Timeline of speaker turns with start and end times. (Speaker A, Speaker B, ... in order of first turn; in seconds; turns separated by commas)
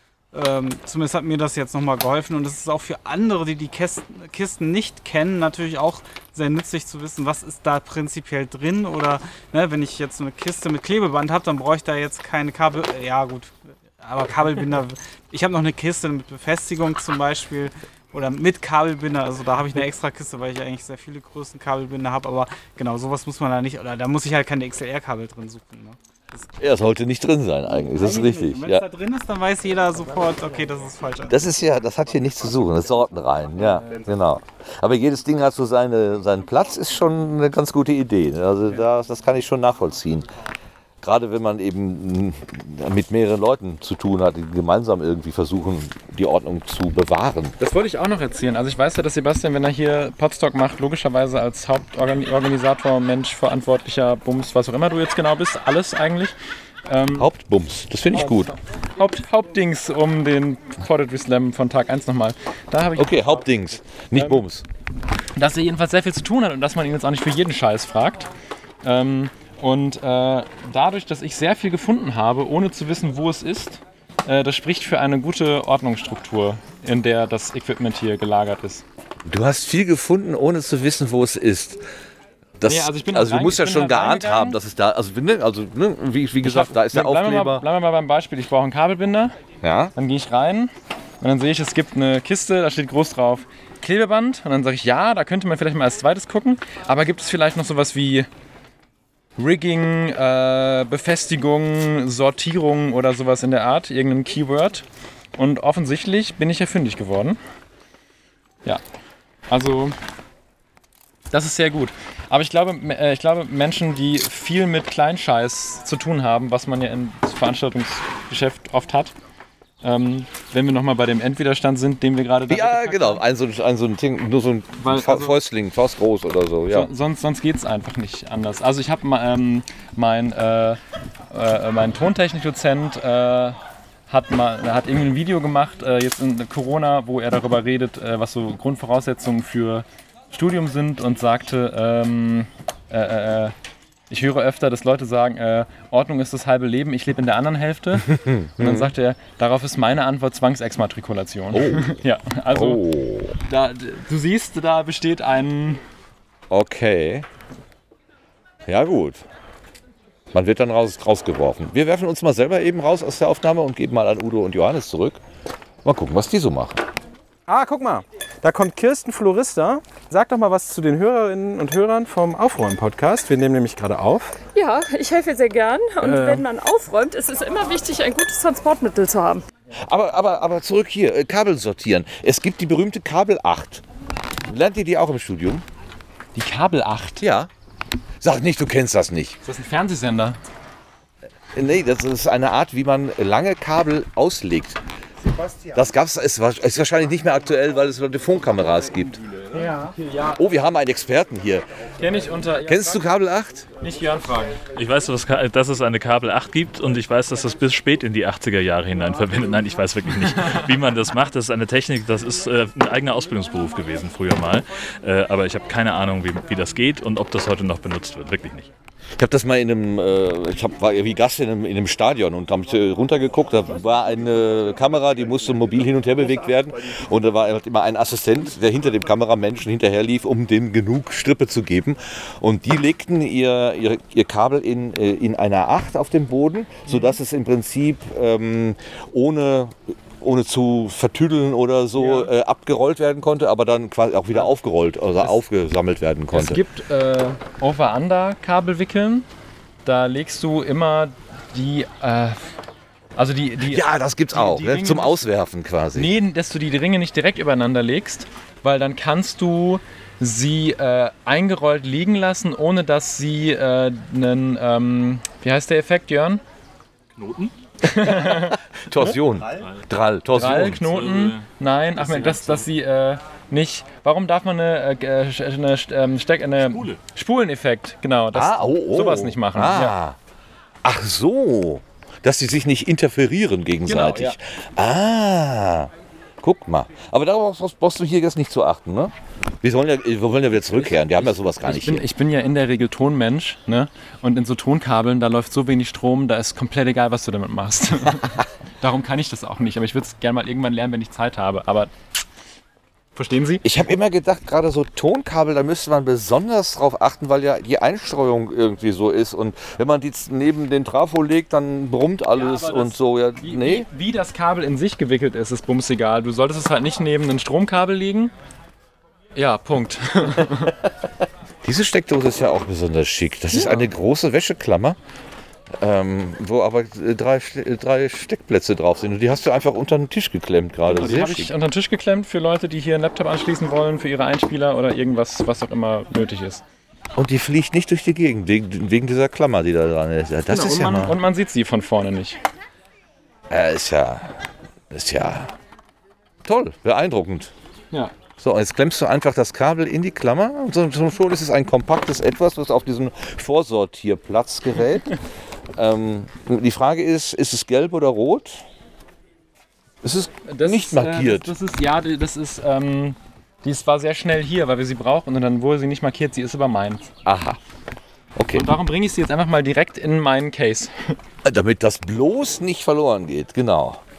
Speaker A: 0.3-26.4, Speaker B: 26.6-28.9, Speaker A: 27.9-31.4, Speaker B: 31.3-40.3, Speaker B: 41.0-47.5, Speaker C: 47.6-56.4, Speaker C: 56.9-57.3, Speaker B: 57.2-58.5, Speaker C: 58.1-63.4, Speaker B: 63.0-64.7, Speaker C: 64.1-64.4, Speaker C: 65.4-68.3, Speaker C: 68.8-78.8, Speaker B: 79.3-81.8, Speaker B: 82.6-87.6, Speaker C: 82.7-84.6, Speaker C: 86.4-89.3, Speaker B: 89.6-89.9, Speaker C: 90.0-98.3, Speaker C: 99.4-104.8, Speaker C: 105.4-107.4, Speaker C: 109.5-110.0, Speaker C: 111.3-119.1, Speaker C: 119.8-123.2, Speaker B: 122.5-126.9, Speaker C: 124.8-125.4, Speaker C: 126.7-130.8, Speaker C: 131.3-143.5, Speaker C: 144.1-152.8, Speaker B: 148.1-148.9, Speaker B: 151.5-152.0, Speaker B: 152.5-153.4, Speaker C: 153.4-155.8, Speaker B: 156.5-157.3, Speaker B: 158.7-159.2, Speaker B: 160.3-165.2, Speaker B: 165.8-166.8, Speaker D: 167.5-174.4, Speaker E: 174.5-179.4, Speaker D: 176.0-176.5, Speaker B: 179.8-183.8, Speaker B: 184.5-185.6, Speaker C: 186.3-187.2, Speaker B: 187.2-187.5, Speaker B: 188.2-189.4, Speaker C: 189.4-190.4, Speaker B: 191.6-194.8, Speaker B: 195.7-199.2, Speaker A: 199.5-199.9, Speaker C: 199.9-200.4, Speaker B: 200.4-201.7, Speaker C: 202.0-203.0, Speaker B: 202.7-203.7, Speaker C: 203.8-204.6, Speaker F: 204.8-218.7, Speaker B: 219.2-246.6, Speaker C: 236.9-237.2, Speaker C: 242.0-242.3, Speaker C: 246.3-249.3, Speaker C: 249.8-252.4, Speaker C: 253.2-255.2, Speaker B: 253.7-256.1, Speaker C: 255.9-266.4, Speaker F: 267.2-267.5, Speaker C: 267.8-269.1, Speaker B: 268.0-270.9, Speaker F: 269.5-269.8, Speaker C: 270.3-279.9, Speaker F: 270.8-272.7, Speaker F: 276.6-277.0, Speaker B: 278.3-280.2, Speaker B: 280.8-285.9, Speaker C: 283.9-284.4, Speaker B: 286.4-292.1, Speaker C: 290.7-301.9, Speaker C: 303.2-303.6, Speaker B: 303.6-313.9, Speaker C: 312.3-318.3, Speaker C: 319.4-320.8, Speaker B: 321.6-325.0, Speaker C: 323.5-323.9, Speaker B: 325.8-331.5, Speaker C: 330.9-336.6, Speaker B: 337.2-341.2, Speaker C: 340.5-342.4, Speaker B: 343.5-344.4, Speaker B: 344.9-345.5, Speaker B: 346.4-347.5, Speaker B: 348.4-355.2, Speaker B: 355.8-358.6, Speaker B: 360.0-361.5, Speaker C: 360.5-367.1, Speaker B: 367.3-367.6, Speaker B: 368.4-368.7, Speaker C: 368.5-371.2, Speaker B: 371.4-374.0